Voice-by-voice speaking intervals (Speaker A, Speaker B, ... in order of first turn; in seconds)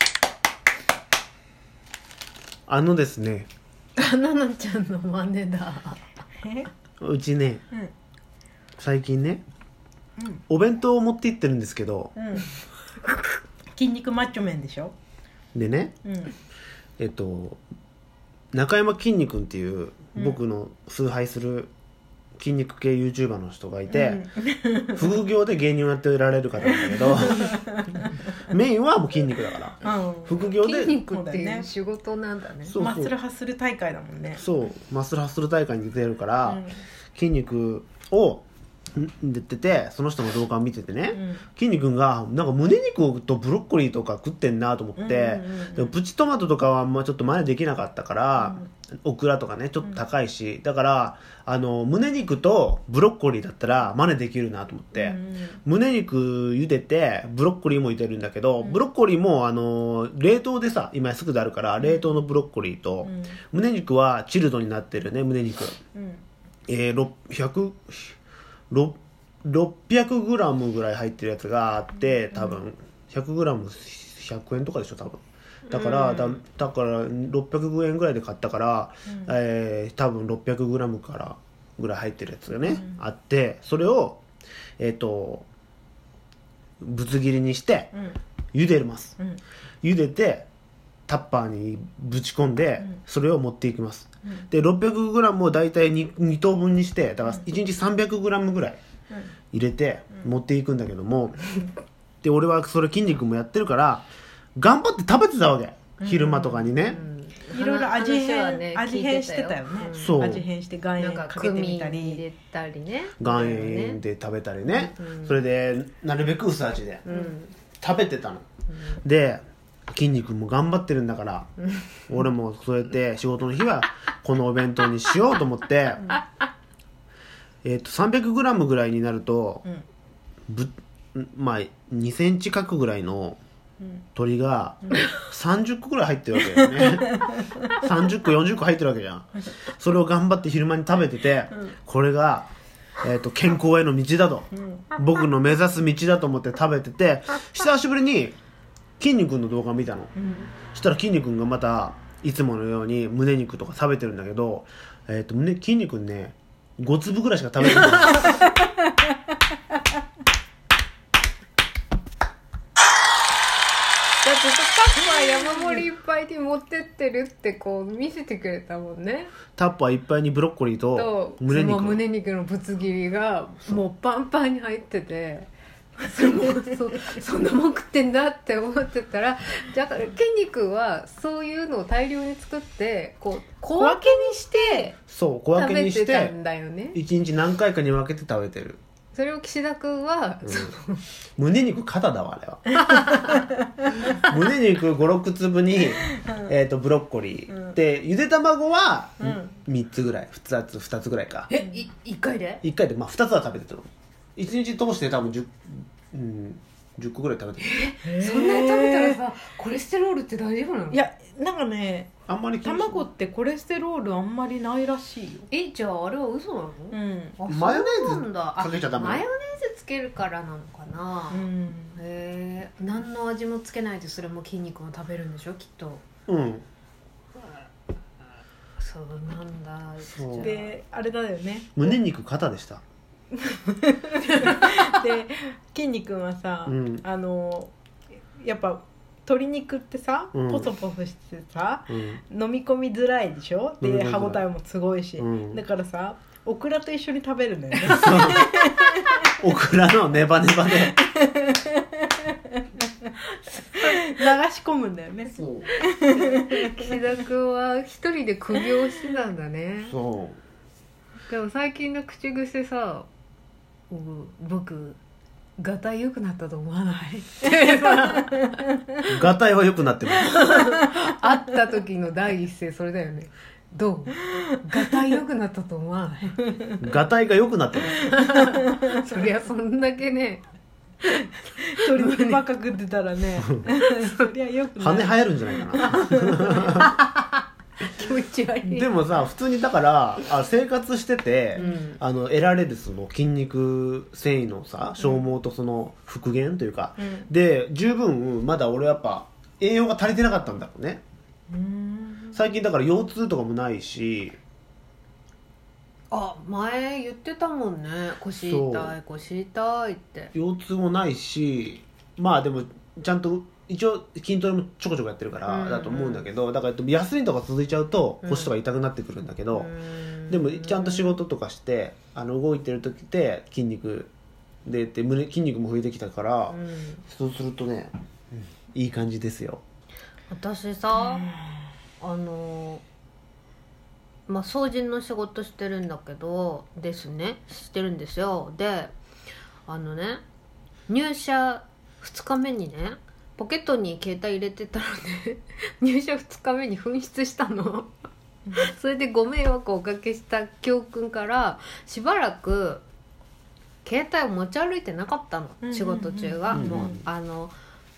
Speaker A: 2.7-3.5, 7.0-7.6, 8.8-9.4, 10.5-12.1, 15.5-15.9, 17.0-17.6, 18.5-21.7, 22.4-24.3, 24.9-27.6, 28.4-31.0, 32.6-33.1, 34.4-36.6, 37.1-65.8, 66.7-68.2, 68.7-84.2, 84.8-85.5, 86.8-88.0, 88.5-89.2, 89.8-90.5, 91.1-98.8, 99.5-101.6, 102.2-107.0, 109.9-110.5, 113.2-117.1, 117.8-118.5, 119.0-121.5, 122.1-126.2, 127.6-129.7, 130.5-133.4, 134.2-137.2, 137.8-148.3, 149.0-158.4, 169.5-172.0, 185.1-186.3, 186.9-188.8, 190.4-190.7, 191.4-193.1, 194.0-201.5, 202.6-207.7, 212.3-213.1, 217.4-219.2, 226.3-226.6, 230.0-230.5, 231.8-232.8, 236.7-237.0, 240.3-240.7, 241.9-242.2, 243.8-244.4, 245.2-245.6, 247.8-248.5, 249.3-251.0, 255.3-255.7, 259.8-260.4, 269.0-270.4, 276.8-278.1, 283.4-283.7, 284.8-286.9, 288.6-301.0, 302.3-304.4, 308.4-308.9, 310.3-319.7, 320.3-324.1, 324.6-329.6, 356.5-357.0
Speaker B: 4.0-6.0, 30.5-32.8, 106.7-110.2, 111.0-114.0, 114.7-115.4, 117.0-117.5, 118.7-119.0, 164.2-169.3, 170.9-184.9, 185.5-187.0, 189.1-191.0, 192.9-193.3, 201.5-202.6, 207.6-211.0, 215.5-226.0, 228.8-230.7, 256.0-259.9, 261.3-263.1, 263.9-265.0, 265.6-268.5, 270.2-276.5, 277.9-280.4, 281.0-282.4, 284.0-284.3, 286.5-288.9, 291.6-292.0, 306.1-310.3, 315.4-316.2, 318.2-318.5, 319.5-321.2, 326.5-327.0, 330.3-331.4, 332.0-332.8, 334.3-338.9, 339.6-340.2, 340.9-347.9, 348.5-352.8, 353.8-357.5
Speaker C: 6.4-6.7, 12.2-12.5, 13.7-14.9, 16.0-16.3, 20.1-20.4, 23.9-25.1, 26.6-28.1, 29.8-30.4, 31.1-31.7, 32.8-34.4, 36.4-36.7, 41.1-41.4, 45.0-45.9, 48.4-48.6, 54.9-55.6, 61.8-62.1, 63.0-63.4, 65.9-66.2, 72.3-72.6, 75.7-76.4, 79.1-79.3, 82.7-83.0, 106.0-106.7, 107.5-112.2, 134.9-135.1, 136.6-137.7, 150.2-150.5, 158.1-158.5, 165.1-165.7, 183.7-184.9, 199.2-199.5, 208.0-209.2, 210.9-215.4, 216.9-217.4, 221.3-222.0, 230.4-231.9, 233.3-237.7, 238.4-249.2, 251.0-256.9, 267.9-268.5, 276.5-276.7, 281.7-286.7, 301.5-302.4, 331.0-331.5, 355.6-357.0